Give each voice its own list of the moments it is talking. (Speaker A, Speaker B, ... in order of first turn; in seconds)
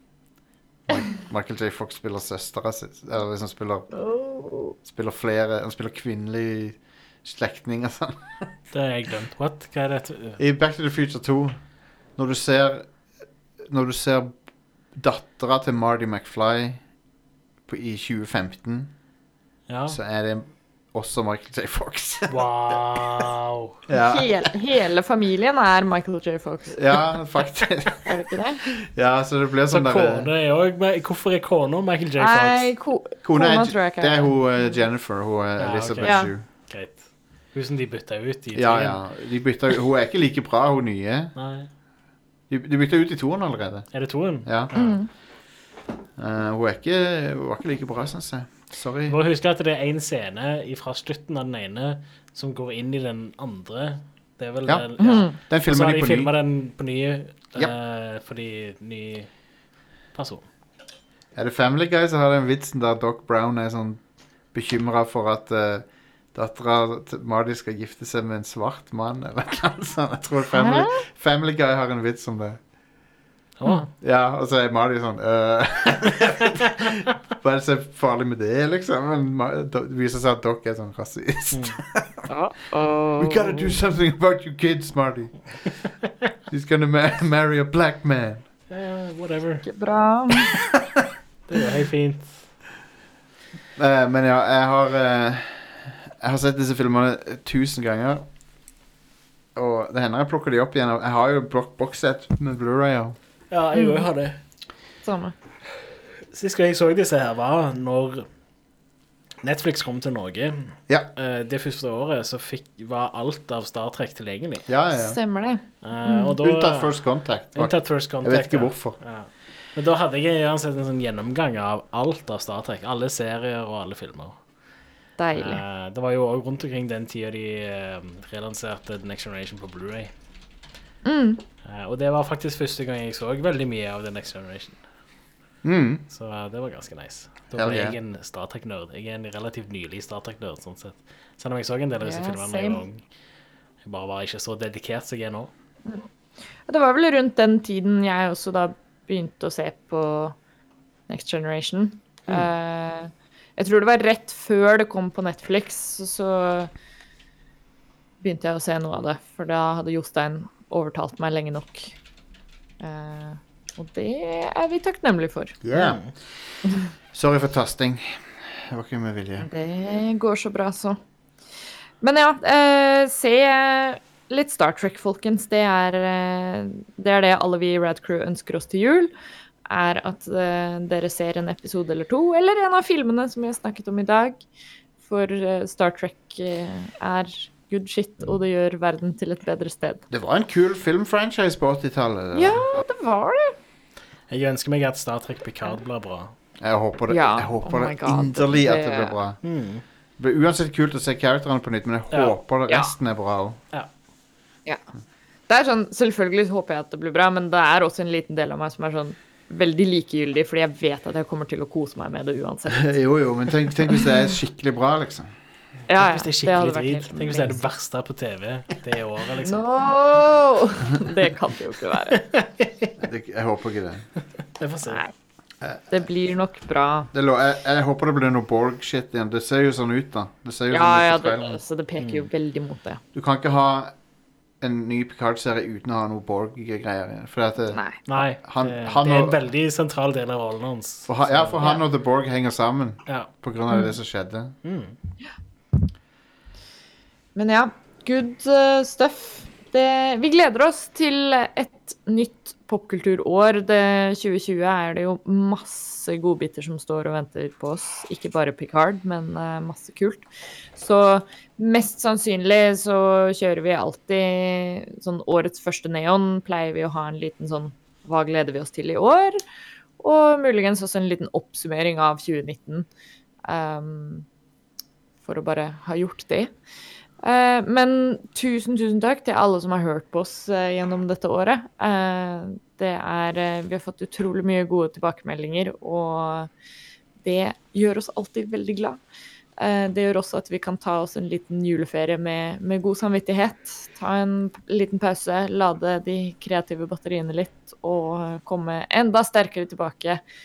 Speaker A: 0.9-3.9, 4.8-8.5, 10.4-11.6, 12.2-12.9, 13.7-14.3, 14.9-16.8, 17.7-18.9, 19.9-22.8, 23.9-24.3, 26.7-28.0, 28.8-30.3, 33.2-36.4, 38.5-41.3, 42.5-43.9, 44.4-44.7, 46.2-49.2, 54.6-56.3, 61.4-72.6, 74.0-82.3, 83.2-85.5, 86.5-88.4, 93.8-98.3, 99.5-103.2, 114.7-115.2, 116.4-119.0, 135.6-136.0, 137.6-138.0, 165.6-166.6, 167.1-169.5, 190.1-192.7, 196.6-199.4, 200.2-203.6, 212.7-215.3, 223.0-224.1, 225.6-226.0, 227.1-231.6, 233.1-233.9, 234.6-239.4, 241.1-244.6
Speaker B: 3.9-4.8, 24.0-26.8, 28.1-28.7, 32.2-34.4, 36.0-36.3, 44.8-45.1, 55.0-55.4, 70.5-71.0, 82.3-83.7, 89.7-90.5, 103.7-104.0, 105.0-105.3, 114.9-116.3, 125.2-125.6, 131.1-131.4, 142.0-142.8, 146.7-150.4, 151.1-156.7, 158.2-161.9, 162.8-165.6, 169.4-171.0, 172.0-179.1, 179.7-184.4, 185.0-190.1, 192.3-193.6, 197.1-199.2, 205.5-212.9, 215.9-217.6, 219.4-222.2, 224.8-225.1, 225.9-227.1, 230.7-233.0, 237.7-238.0, 247.3-269.4, 270.0-272.9, 273.4-274.3, 275.2-276.5, 277.2-286.5, 287.2-289.0, 289.6-300.2
Speaker C: 8.7-10.4, 19.7-20.0, 22.3-23.8, 29.7-32.7, 35.6-39.1, 41.4-41.7, 43.9-45.0, 49.1-59.3, 60.1-60.5, 73.6-73.9, 81.5-81.8, 88.7-89.7, 91.5-92.4, 103.5-104.4, 106.3-108.3, 109.4-114.7, 115.8-116.9, 117.5-124.4, 125.3-130.1, 131.6-134.8, 136.1-143.0, 143.8-145.5, 165.7-166.1, 194.3-196.3, 199.4-199.8, 202.1-202.4, 216.0-219.6, 222.1-223.0, 224.6-225.0, 232.0-232.3, 238.1-241.7, 244.6-244.9